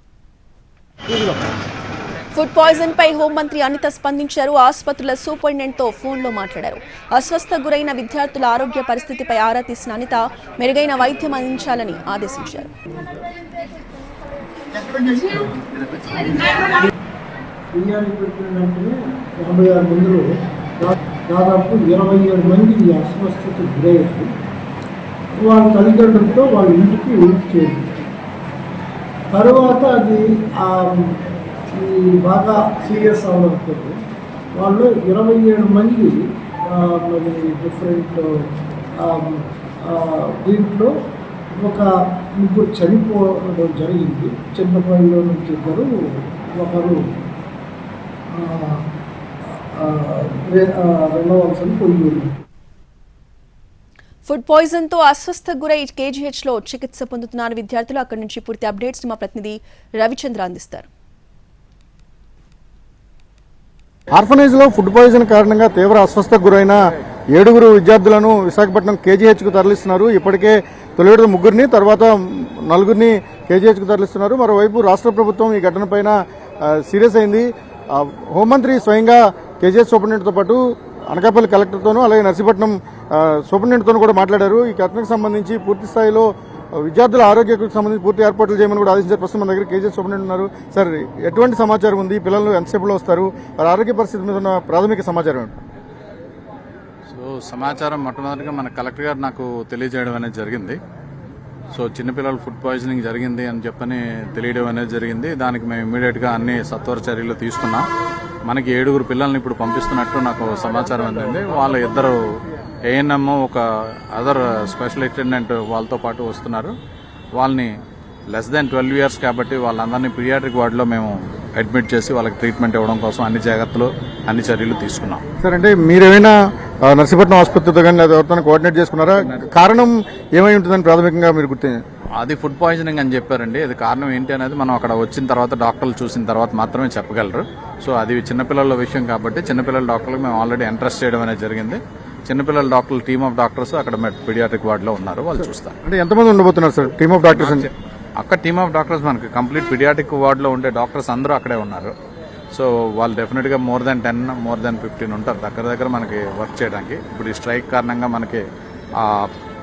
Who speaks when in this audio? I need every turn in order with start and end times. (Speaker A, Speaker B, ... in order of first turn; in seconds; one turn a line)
Speaker A: 2.3-12.7
Speaker B: 17.7-24.3
Speaker B: 25.3-28.0
Speaker B: 29.3-34.0
Speaker B: 34.5-40.9
Speaker B: 41.5-47.0
Speaker B: 48.3-48.9
Speaker B: 49.6-52.3
Speaker A: 54.3-60.9
Speaker C: 64.1-66.8
Speaker C: 67.3-95.6
Speaker D: 97.1-100.8
Speaker D: 101.7-107.9
Speaker D: 108.5-112.2
Speaker D: 112.9-113.6
Speaker D: 114.2-116.7
Speaker D: 117.4-117.7
Speaker D: 118.3-125.2
Speaker C: 125.4-131.8
Speaker D: 132.2-145.8
Speaker C: 145.8-147.7
Speaker D: 147.4-151.9
Speaker D: 152.5-158.4
Speaker D: 159.0-159.3